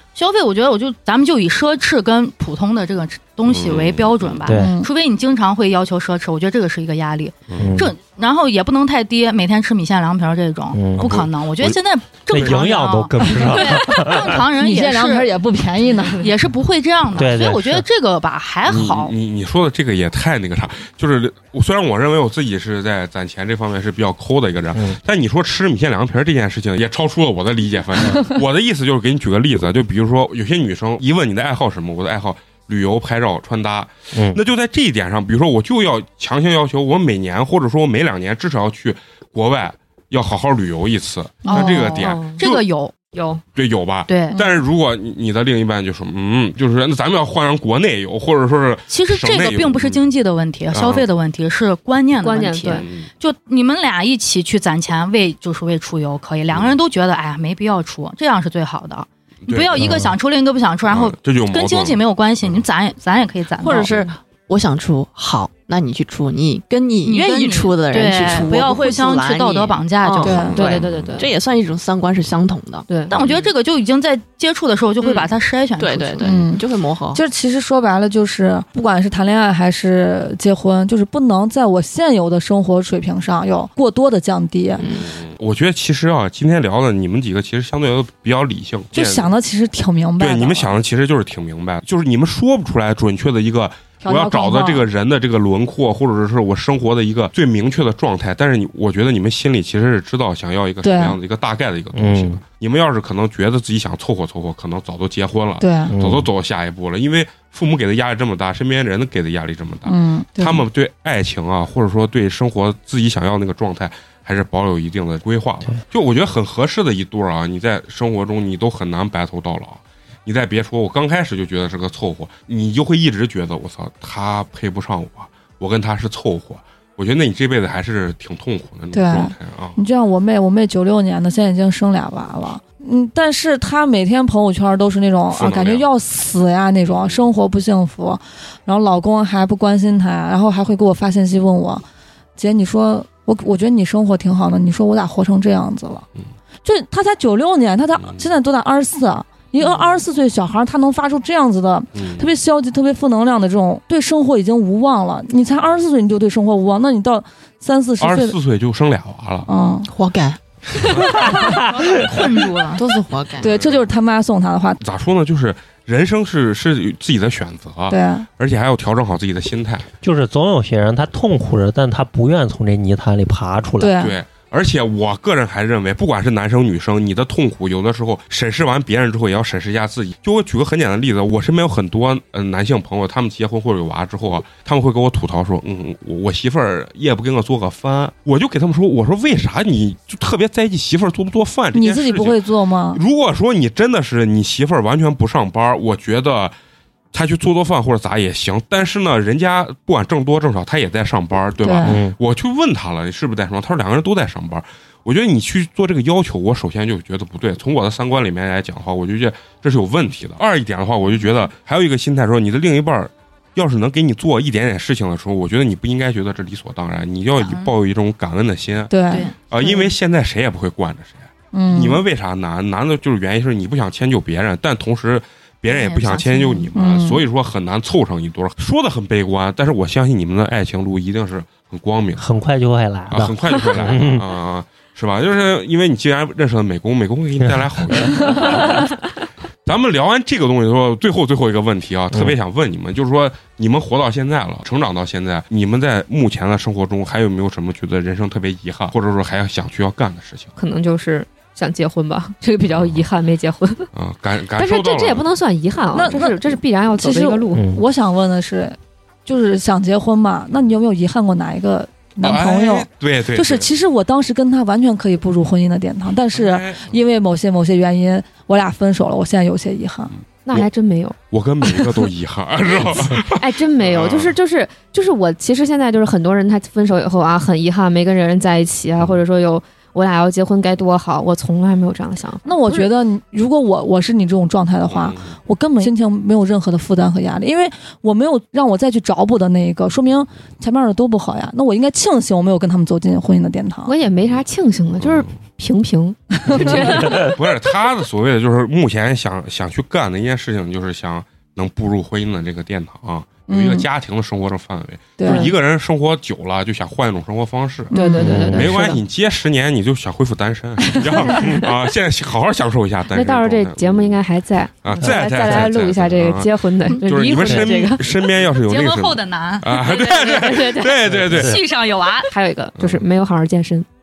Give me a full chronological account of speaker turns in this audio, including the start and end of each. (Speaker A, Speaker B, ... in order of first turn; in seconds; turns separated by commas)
Speaker A: 0.1-15.4, Speaker B: 3.5-4.5, Speaker C: 4.5-4.7, Speaker D: 4.5-4.9, Speaker B: 7.5-7.7, Speaker C: 7.6-7.9, Speaker C: 10.7-11.1, Speaker B: 11.0-11.8, Speaker C: 12.3-14.4, Speaker B: 12.3-12.6, Speaker D: 13.3-13.8, Speaker D: 14.5-16.3, Speaker A: 16.1-19.1, Speaker C: 17.1-17.8, Speaker B: 18.6-42.6, Speaker C: 34.1-34.4, Speaker A: 41.5-42.9, Speaker E: 41.5-42.4, Speaker E: 43.1-43.4, Speaker B: 43.5-50.0, Speaker A: 44.1-44.4, Speaker A: 48.9-64.1, Speaker B: 50.7-51.0, Speaker E: 52.2-52.9, Speaker B: 52.7-53.1, Speaker B: 59.4-60.0, Speaker B: 60.9-62.6, Speaker F: 63.6-72.9, Speaker A: 67.0-70.7, Speaker D: 70.2-70.6, Speaker B: 70.3-71.1, Speaker E: 70.4-71.3, Speaker E: 72.9-73.1, Speaker A: 73.1-76.4, Speaker B: 73.1-73.5, Speaker F: 75.0-77.2, Speaker D: 76.2-84.8, Speaker F: 84.8-85.1, Speaker B: 84.8-89.3, Speaker D: 88.9-90.8, Speaker B: 90.2-129.8, Speaker D: 94.0-94.8, Speaker D: 100.8-101.2, Speaker C: 102.0-102.4, Speaker D: 105.6-105.9, Speaker C: 105.9-106.2, Speaker D: 109.8-110.6, Speaker D: 128.9-141.8, Speaker B: 135.3-135.9, Speaker B: 136.9-137.2, Speaker D: 142.4-146.1, Speaker D: 146.6-158.3, Speaker B: 148.0-148.3, Speaker B: 151.9-152.3, Speaker B: 158.0-159.5, Speaker D: 159.5-159.9, Speaker F: 159.9-161.3, Speaker D: 161.1-161.6, Speaker A: 161.4-162.8, Speaker C: 161.4-161.9, Speaker F: 162.8-163.6, Speaker D: 162.8-164.8, Speaker B: 163.4-163.9, Speaker B: 164.8-169.9, Speaker D: 167.9-168.2, Speaker C: 170.0-173.9, Speaker D: 173.8-174.2, Speaker B: 173.9-196.5, Speaker D: 191.7-193.0, Speaker B: 197.1-232.2, Speaker D: 201.6-202.0, Speaker C: 201.8-202.2, Speaker A: 217.4-217.7, Speaker D: 218.9-219.2, Speaker A: 219.1-219.8, Speaker D: 221.5-222.0, Speaker A: 225.6-226.7, Speaker D: 226.7-227.2, Speaker C: 232.2-234.2, Speaker B: 233.1-238.9, Speaker B: 239.6-250.5, Speaker E: 250.6-253.9, Speaker B: 252.7-253.0, Speaker B: 253.9-255.3, Speaker E: 254.6-257.6, Speaker D: 255.9-270.1, Speaker C: 257.5-257.8, Speaker B: 262.2-263.7, Speaker B: 266.3-267.0, Speaker E: 270.4-271.1, Speaker B: 271.3-274.4, Speaker E: 273.3-282.9, Speaker D: 282.4-293.9, Speaker B: 284.9-285.4, Speaker E: 293.9-297.3, Speaker B: 295.0-295.3, Speaker D: 296.4-297.1, Speaker B: 296.6-314.2, Speaker D: 303.5-303.9, Speaker D: 305.2-305.5, Speaker E: 305.2-305.5, Speaker E: 307.9-309.0, Speaker D: 307.9-308.9, Speaker C: 308.2-308.7, Speaker E: 313.1-318.1, Speaker B: 314.8-321.6, Speaker C: 315.0-315.6, Speaker C: 317.4-317.7, Speaker A: 318.4-322.3, Speaker E: 320.1-320.9, Speaker C: 321.1-321.6, Speaker E: 322.3-323.9, Speaker B: 322.8-323.0